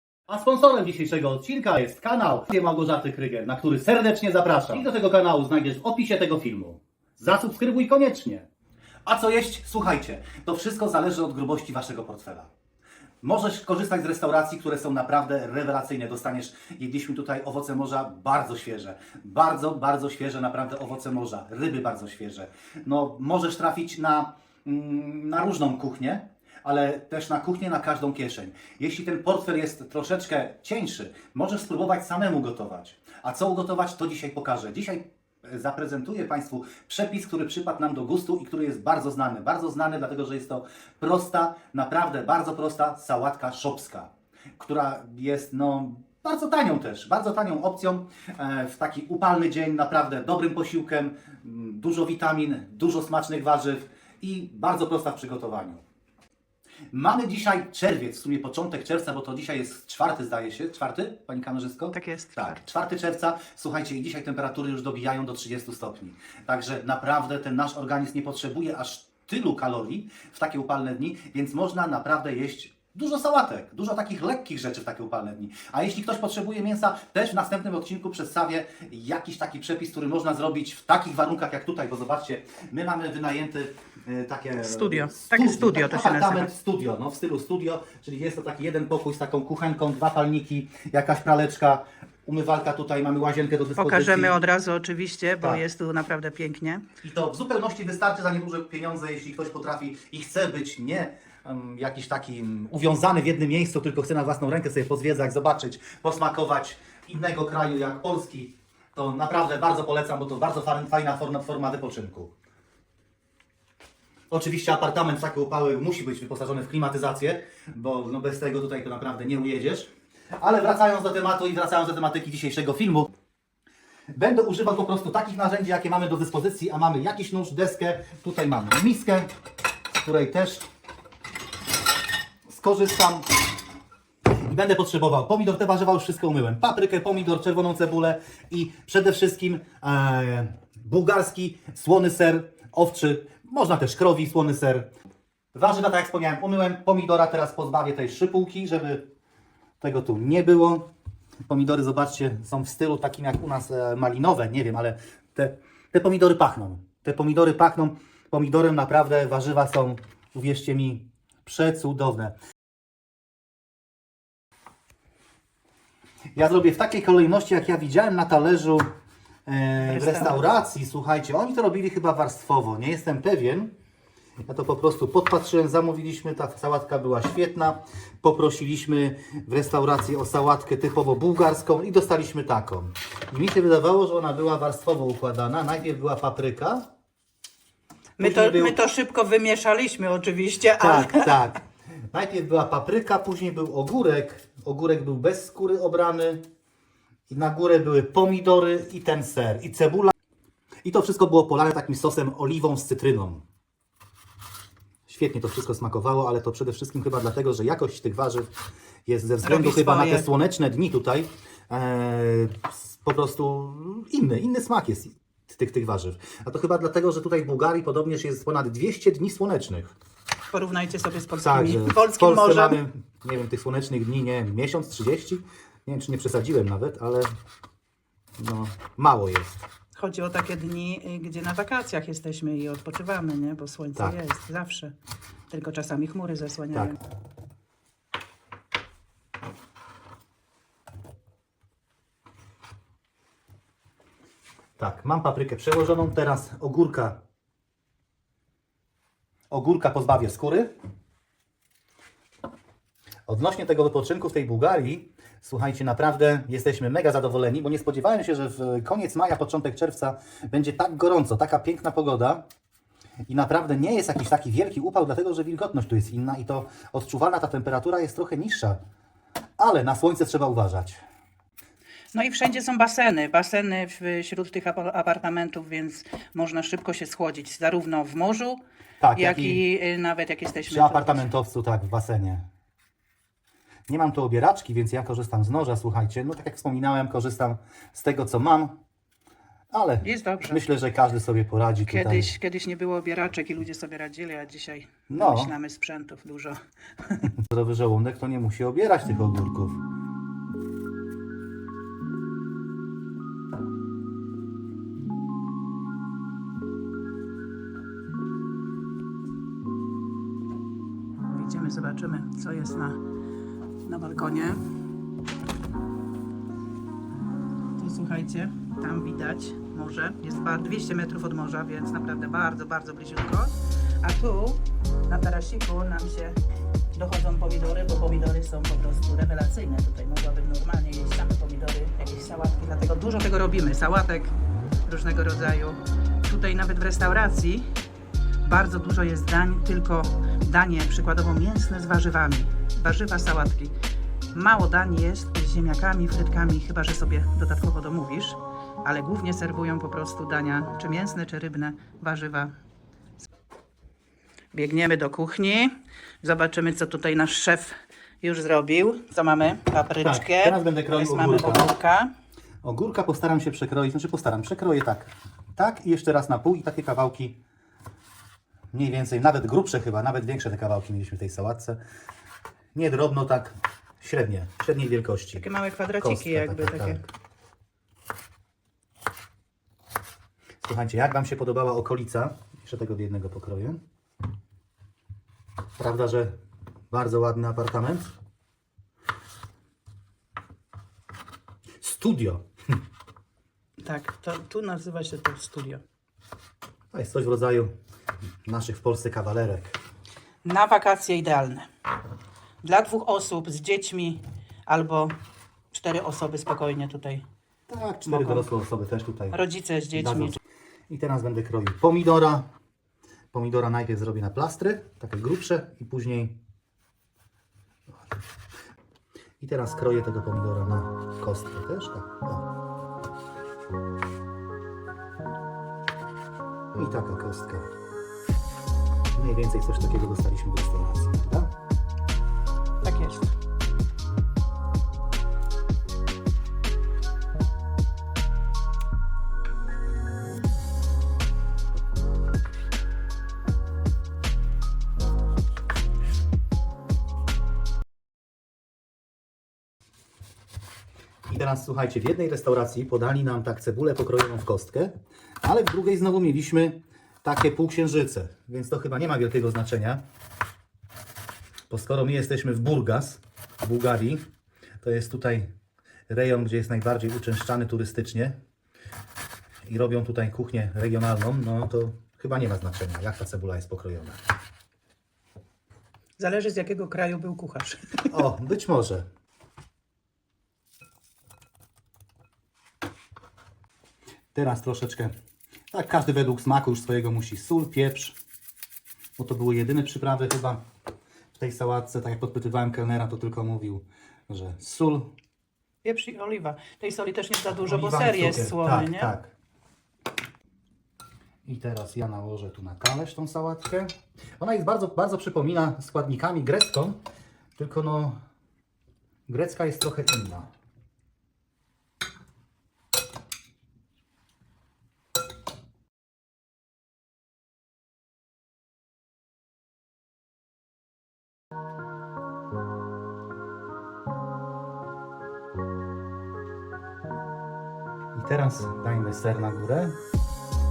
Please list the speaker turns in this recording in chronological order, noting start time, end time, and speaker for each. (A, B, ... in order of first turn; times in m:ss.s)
0:00.3-0:08.5 A
0:09.1-0:12.5 A
0:13.2-0:55.8 A
0:56.9-1:34.3 A
1:01.9-1:02.7 B
1:24.6-1:26.5 B
1:33.8-1:36.8 B
1:37.0-1:52.3 A
1:54.3-2:03.1 A
2:04.1-2:09.3 A
2:09.9-2:10.7 A
2:12.5-2:13.3 A
2:14.3-2:24.9 A
2:25.6-2:29.1 A
2:29.8-2:30.9 A
2:31.5-2:42.4 A
2:46.4-2:48.9 A
2:49.5-2:53.7 A
2:49.8-2:50.4 B
2:54.4-3:06.9 A
3:08.2-3:11.3 B
3:08.2-3:08.8 A
3:10.8-3:16.4 A
3:17.3-3:20.1 A
3:20.8-3:23.4 A
3:25.1-3:28.5 A
3:29.1-3:39.9 A
3:29.4-3:30.3 B
3:40.5-3:42.8 B
3:41.4-3:47.3 A
3:48.4-3:49.6 A
3:50.0-3:54.9 B
3:55.5-3:57.0 B
4:04.8-4:07.2 A
4:09.5-4:10.7 A
4:13.3-4:22.4 A
4:23.3-4:28.8 A
4:29.6-4:31.0 A
4:32.1-4:38.6 B
4:39.0-4:39.6 A
4:39.2-4:41.3 B
4:40.7-4:42.4 A
4:43.9-4:48.8 A
4:49.7-4:52.3 A
4:50.0-4:50.6 B
4:51.9-4:57.3 B
4:55.1-4:55.5 A
4:57.3-4:59.8 A
5:11.3-5:13.0 B
5:13.8-5:14.6 B
5:17.8-5:26.4 B
5:27.0-5:34.4 B
5:34.9-5:37.7 B
5:38.4-5:43.8 B
5:44.3-5:52.5 B
5:54.5-6:02.1 B
6:00.0-6:01.7 A
6:02.6-6:07.4 A
6:08.7-6:11.8 A
6:12.8-6:15.4 A
6:15.3-6:17.0 B
6:16.0-6:17.0 A
6:20.6-6:23.8 A
6:25.8-6:26.4 A
6:26.9-6:28.1 A
6:31.8-6:32.5 A
6:33.8-6:35.8 B
6:36.9-6:37.7 A
6:38.5-6:39.8 A
6:40.4-6:41.7 B
6:42.6-6:45.1 B
6:45.7-6:47.2 B
6:47.7-6:49.4 A
6:48.0-6:48.5 B
6:49.3-6:50.4 B
6:50.0-6:50.4 A
6:50.9-6:52.5 A
6:53.3-6:56.4 A
6:59.4-7:02.5 A
7:06.8-7:07.7 A
7:09.2-7:11.5 A
7:12.8-7:13.3 B
7:31.3-7:40.0 A
7:41.7-7:44.2 A
7:44.8-7:45.5 A
7:46.1-7:48.4 A
7:49.7-7:54.2 A
7:56.2-7:58.2 B
7:58.1-7:59.1 A
8:04.3-8:05.1 A
8:05.7-8:08.2 A
8:09.2-8:10.6 A
8:11.4-8:15.1 A
8:15.8-8:19.1 B
8:17.5-8:19.3 A
8:21.4-8:27.0 A
8:27.6-8:28.2 A
8:29.3-8:30.5 A
8:48.1-8:50.0 A